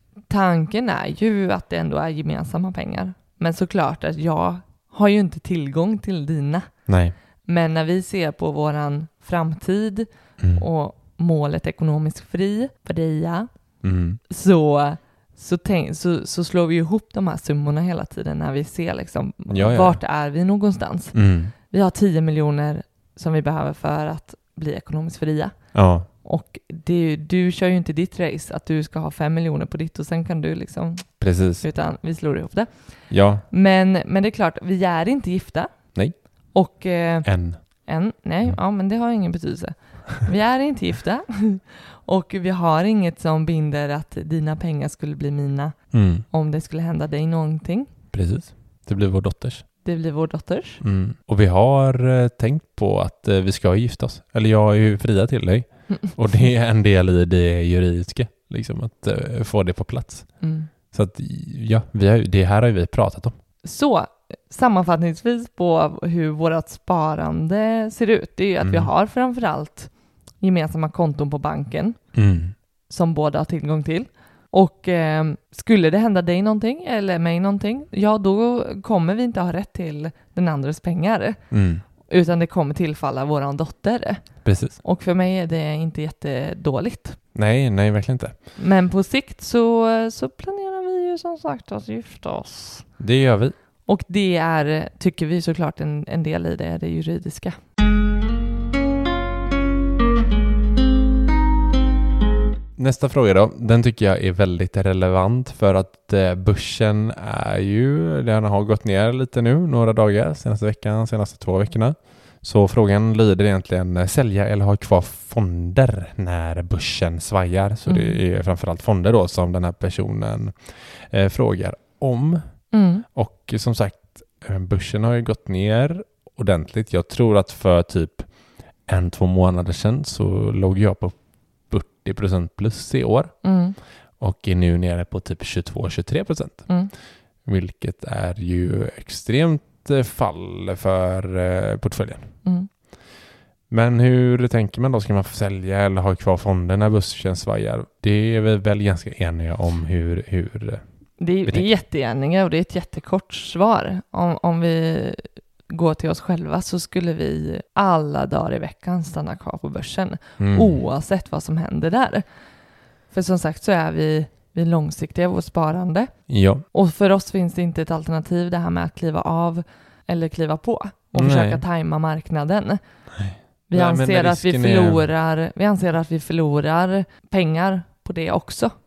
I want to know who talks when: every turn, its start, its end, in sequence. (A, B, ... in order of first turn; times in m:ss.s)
0:00.3-0:06.7 A
0:06.9-0:07.1 B
0:07.5-0:13.5 A
0:10.4-0:10.6 B
0:13.8-0:14.2 B
0:14.3-0:21.2 A
0:19.5-0:20.0 B
0:21.1-0:21.5 B
0:21.7-0:25.5 A
0:25.7-0:26.1 B
0:26.2-0:32.7 A
0:31.2-0:31.6 B
0:33.1-0:33.4 B
0:33.5-0:35.7 A
0:36.5-0:45.8 A
0:37.2-0:37.6 B
0:45.9-0:46.2 B
0:46.3-0:47.9 A
0:48.1-0:49.6 B
0:49.8-0:50.8 A
0:50.8-1:00.4 B
0:55.9-0:56.4 A
1:00.4-1:00.7 A
1:00.9-1:03.3 B
1:03.6-1:12.0 A
1:08.6-1:08.9 B
1:12.1-1:12.5 B
1:12.9-1:21.4 A
1:21.5-1:21.8 B
1:22.1-1:27.2 A
1:24.4-1:24.8 B
1:27.3-1:28.4 B
1:28.6-1:32.9 A
1:33.0-1:33.5 B
1:33.8-1:37.6 A
1:42.8-2:08.3 B
1:57.8-1:58.2 A
2:02.7-2:03.0 A
2:08.8-2:11.2 B
2:11.7-2:13.4 B
2:13.4-2:13.8 A
2:14.2-2:16.7 B
2:17.4-2:22.3 B
2:23.7-2:30.8 B
2:31.2-2:42.2 A
2:40.4-2:40.8 B
2:43.1-2:46.1 A
2:46.3-2:46.6 B
2:46.7-2:52.8 A
2:51.1-2:51.6 B
2:53.1-2:55.1 B
2:53.7-2:58.7 A